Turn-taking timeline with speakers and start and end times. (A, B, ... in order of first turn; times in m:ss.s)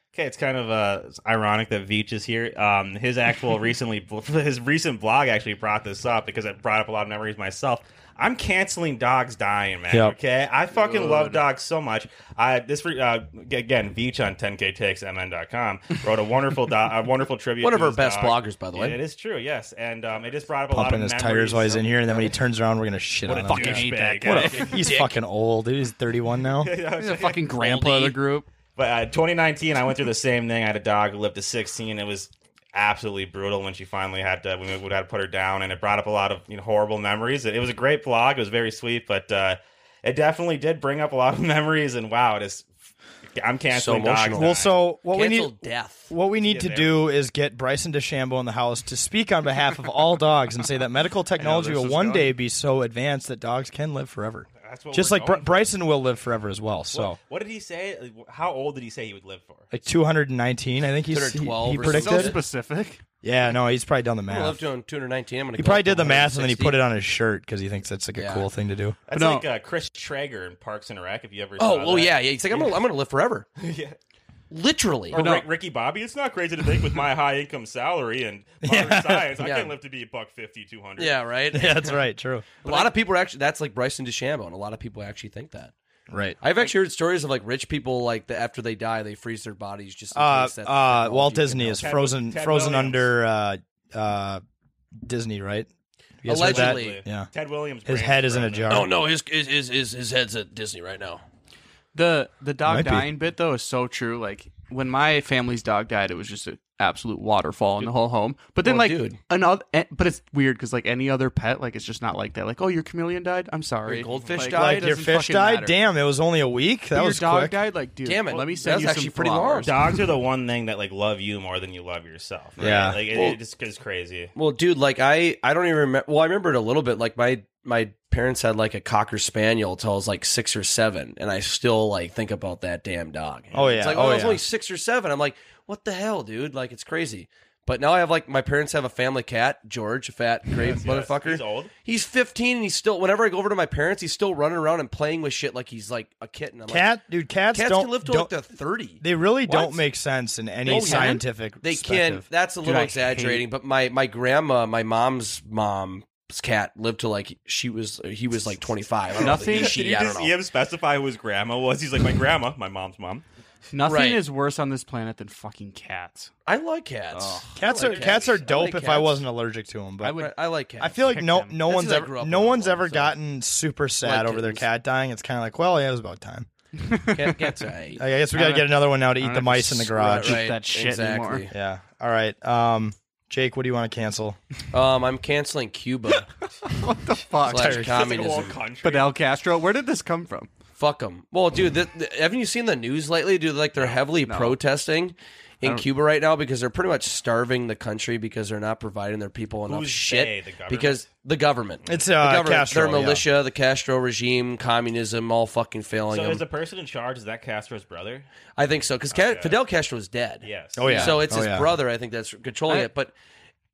0:00.1-0:22.3 A
0:09.9-0:10.1 B
0:10.8-0:11.4 C
0:17.6-0:19.0 D
0:20.7-0:26.7 B
0:23.3-0:24.9 A
0:23.3-0:25.1 C
0:26.6-0:28.1 A
0:27.0-0:28.5 C
0:27.7-0:28.1 D
0:28.7-0:42.7 A
0:43.4-0:44.8 A
0:43.7-0:44.5 D
0:44.3-0:45.6 B
0:45.1-0:46.1 D
0:46.1-0:57.2 B
0:46.4-0:47.0 A
0:51.4-0:52.3 C
0:54.6-0:55.7 A
0:56.9-0:59.7 A
0:59.7-1:02.4 B
1:01.1-1:02.4 D
1:01.8-1:03.0 C
1:03.2-1:04.6 B
1:04.3-1:06.8 D
1:05.6-1:09.0 B
1:08.1-1:08.5 D
1:09.1-1:12.8 A
1:09.1-1:09.4 C
1:11.6-1:13.5 D
1:13.6-1:14.0 A
1:14.5-1:15.3 D
1:15.1-1:21.2 A
1:15.1-1:15.5 C
1:18.6-1:19.3 B
1:19.4-1:19.7 D
1:21.0-1:22.0 D
1:21.5-1:22.5 B
1:22.6-1:25.7 D
1:26.1-1:26.4 B
1:26.4-1:31.9 D
1:30.1-1:34.4 B
1:31.8-1:33.1 A
1:35.0-1:35.7 B
1:36.2-1:37.3 B
1:36.2-1:37.0 D
1:36.3-1:38.8 A
1:37.8-1:38.9 B
1:38.7-1:41.2 D
1:41.9-1:55.7 C
1:42.6-1:43.1 B
1:48.6-1:49.2 D
1:53.8-1:54.9 D
1:54.5-1:57.6 B
1:56.9-2:00.0 C
1:58.0-1:59.7 D
1:59.6-2:04.3 A
2:02.6-2:03.0 B
2:02.6-2:03.4 D
2:04.3-2:26.9 D
2:13.5-2:14.4 B
2:20.5-2:21.7 A
2:26.7-2:28.3 B
2:27.5-2:29.8 D
2:29.0-2:32.3 B
2:30.6-2:40.4 D
2:30.7-2:31.2 C
2:32.6-2:33.5 C
2:39.2-2:39.8 C
2:39.2-2:43.2 A
2:43.7-2:46.3 C
2:43.8-2:44.2 D
2:46.4-2:49.2 D
2:47.1-2:47.6 C
2:47.6-2:50.2 B
2:50.0-2:51.6 C
2:50.2-2:51.0 D
2:50.8-2:56.5 B
2:51.6-2:53.1 D
2:54.0-2:54.7 D
2:56.8-2:57.6 C
2:57.1-2:58.0 D
2:58.0-3:00.4 B
2:58.3-3:01.5 C
3:00.0-3:01.5 D
3:01.5-3:04.4 B
3:04.7-3:06.3 D
3:06.6-3:10.5 C
3:07.4-3:08.6 D
3:07.7-3:09.1 A
3:10.8-3:26.4 D
3:14.2-3:14.6 C
3:15.6-3:15.9 C
3:19.7-3:21.1 A
3:21.9-3:23.2 B
3:26.1-3:28.2 A
3:28.6-3:33.1 D
3:29.1-3:29.6 A
3:30.4-3:30.9 A
3:30.8-3:31.8 B
3:30.8-3:31.2 C